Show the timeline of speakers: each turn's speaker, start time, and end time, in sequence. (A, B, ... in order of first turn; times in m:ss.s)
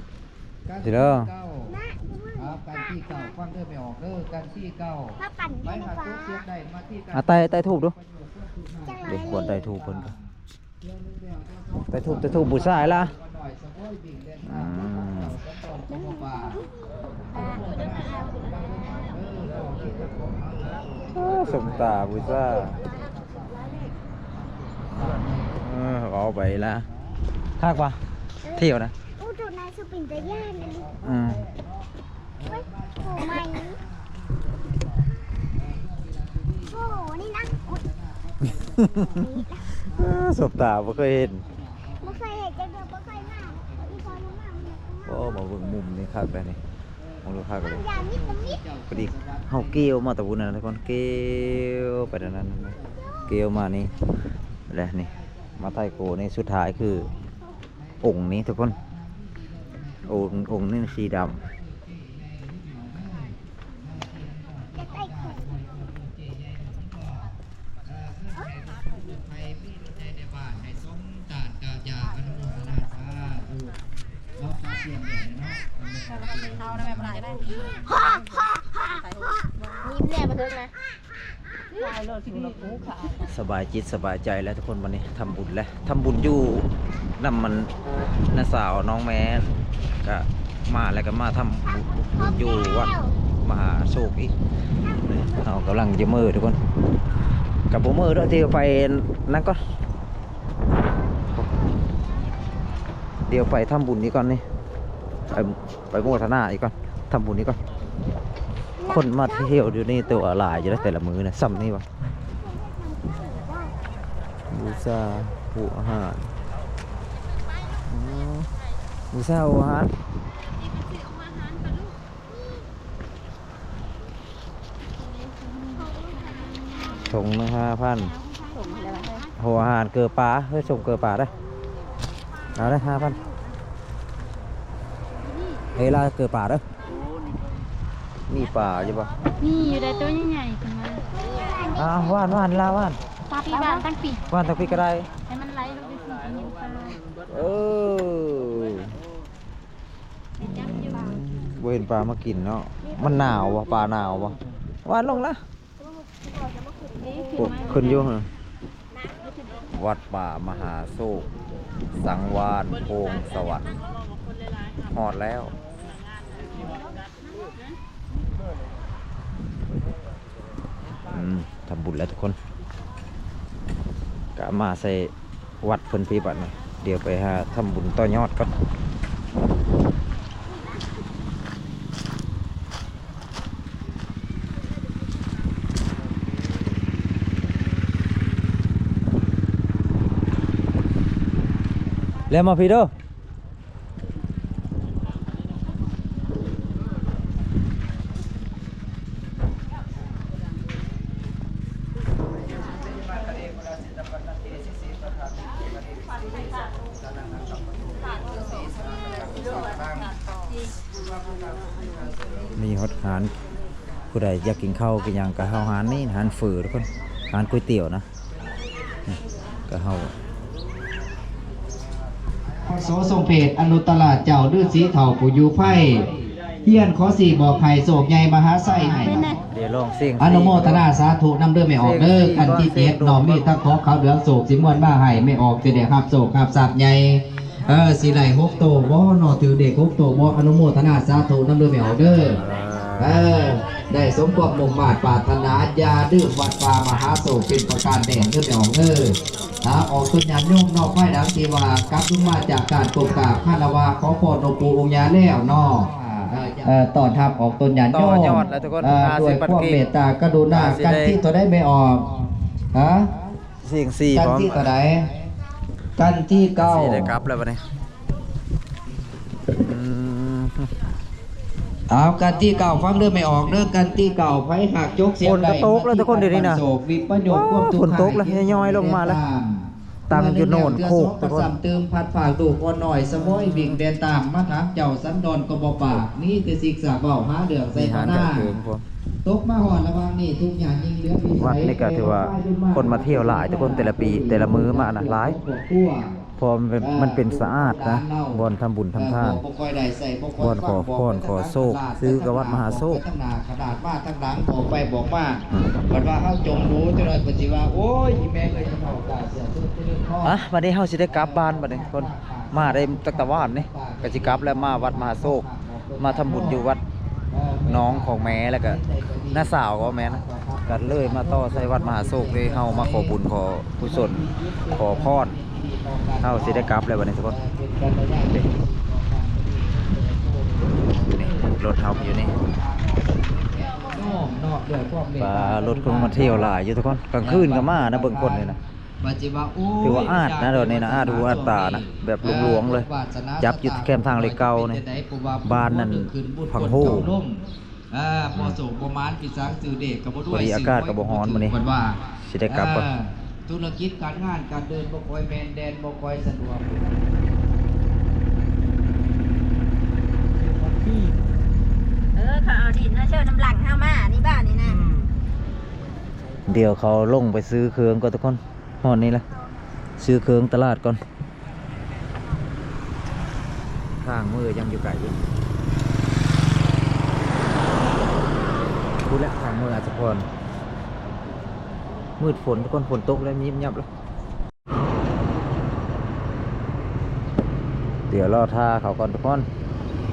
0:00.7-0:01.8 A
0:00.8-0:01.3 B
0:01.7-0:02.6 C
0:02.4-0:10.3 A
0:05.2-0:06.4 C
0:07.1-0:07.9 B
0:08.8-0:09.6 C
0:09.1-0:10.1 B
0:10.8-0:16.7 A
0:11.9-0:13.1 B
0:14.5-0:15.4 B
0:17.3-0:25.8 A
0:21.2-0:22.8 B
0:25.6-0:26.8 B
0:26.6-0:27.1 A
0:27.6-0:28.0 B
0:28.4-0:30.9 C
0:28.5-0:28.9 B
0:30.1-0:39.3 A
0:31.0-0:31.4 B
0:32.4-0:33.8 C
0:36.7-0:37.8 C
0:38.8-0:39.3 B
0:38.8-0:39.7 C
0:39.8-0:44.9 A
0:39.9-0:41.4 B
0:42.0-0:45.4 C
0:45.0-0:46.6 B
0:47.0-0:49.9 A
0:47.2-0:47.8 B
0:47.7-0:48.6 C
0:48.9-0:52.7 B
0:52.8-0:53.2 A
0:53.3-0:53.9 B
0:54.7-0:57.1 B
0:54.8-0:56.2 A
0:56.7-0:57.2 A
0:57.8-1:07.3 A
0:58.0-0:58.7 B
1:00.1-1:01.4 B
1:04.8-1:05.4 C
1:07.8-1:13.8 A
1:14.4-1:17.9 A
1:16.5-1:20.7 D
1:23.2-1:26.7 B
1:27.2-1:27.7 B
1:28.3-1:29.5 B
1:30.0-1:32.9 B
1:32.2-1:33.2 C
1:33.4-1:34.3 B
1:35.1-1:36.6 B
1:37.7-1:39.6 B
1:41.2-1:42.0 C
1:43.3-1:44.4 B
1:45.3-1:47.6 B
1:48.8-1:50.8 C
1:48.9-1:51.9 B
1:52.4-1:53.8 C
1:54.5-1:56.3 B
1:57.8-1:58.5 B
1:59.1-1:59.9 B
2:00.6-2:02.0 E
2:05.0-2:07.0 E
2:05.8-2:06.5 C
2:07.1-2:08.1 B
2:07.9-2:09.3 E
2:08.5-2:09.3 D
2:09.4-2:11.3 B
2:12.6-2:13.2 B
2:12.6-2:13.4 E
2:15.8-2:16.6 B
2:18.3-2:19.1 B
2:19.4-2:21.1 E
2:21.2-2:22.4 C
2:21.8-2:23.0 B
2:23.3-2:27.0 E
2:23.5-2:23.8 D
2:24.3-2:25.1 B
2:27.3-2:28.9 B
2:30.4-2:35.4 B
2:30.7-2:31.0 E
2:37.0-2:38.1 E
2:37.4-2:38.3 B
2:39.8-2:41.3 B
2:42.0-2:43.7 B
2:44.9-2:45.5 B
2:51.1-2:52.4 B
2:54.4-2:58.5 B
3:12.3-3:12.9 B
3:22.5-3:30.1 A
3:29.9-3:30.6 E
3:30.9-3:32.5 A
3:32.6-3:33.3 B
3:34.1-3:38.1 B
3:39.7-3:40.1 B
3:42.5-3:49.4 A
3:48.7-3:49.4 E
3:49.5-3:50.8 B
3:50.2-4:02.4 A
3:51.8-3:53.6 B
4:02.4-4:03.4 B
4:03.0-4:23.1 A
4:17.9-4:19.8 B
4:20.5-4:21.2 B
4:23.6-4:24.7 B
4:24.1-4:25.1 A
4:26.0-4:27.2 A
4:26.6-4:27.6 B
4:29.6-4:30.7 B
4:31.9-4:48.6 A
4:35.2-4:36.6 B
4:37.3-4:39.2 B
4:40.1-4:41.5 B
4:43.2-4:43.8 B
4:47.7-4:48.8 B
4:49.2-4:56.2 A
4:51.4-4:55.4 B
4:56.4-4:59.4 B
4:56.8-4:58.4 A
4:59.0-5:10.4 A
5:00.4-5:03.0 B
5:10.2-5:15.4 B
5:11.1-5:16.7 A
5:16.0-5:16.8 B
5:17.3-5:23.2 A
5:17.7-5:18.8 B
5:19.3-5:24.2 B
5:23.8-5:26.7 A
5:24.7-5:25.4 B
5:26.2-5:27.4 B
5:27.3-5:36.5 A
5:31.1-5:32.3 B
5:35.2-5:38.6 B
5:37.2-5:57.1 A
5:39.8-5:42.9 B
5:43.4-5:44.8 B
5:45.4-5:47.1 B
5:50.3-5:51.5 B
5:52.2-5:52.9 B
6:02.2-6:04.8 D
6:06.5-6:09.2 B
6:10.0-6:11.0 B
6:14.0-6:15.2 B
6:19.1-6:20.3 B
6:22.2-6:23.9 B
6:28.1-6:29.5 B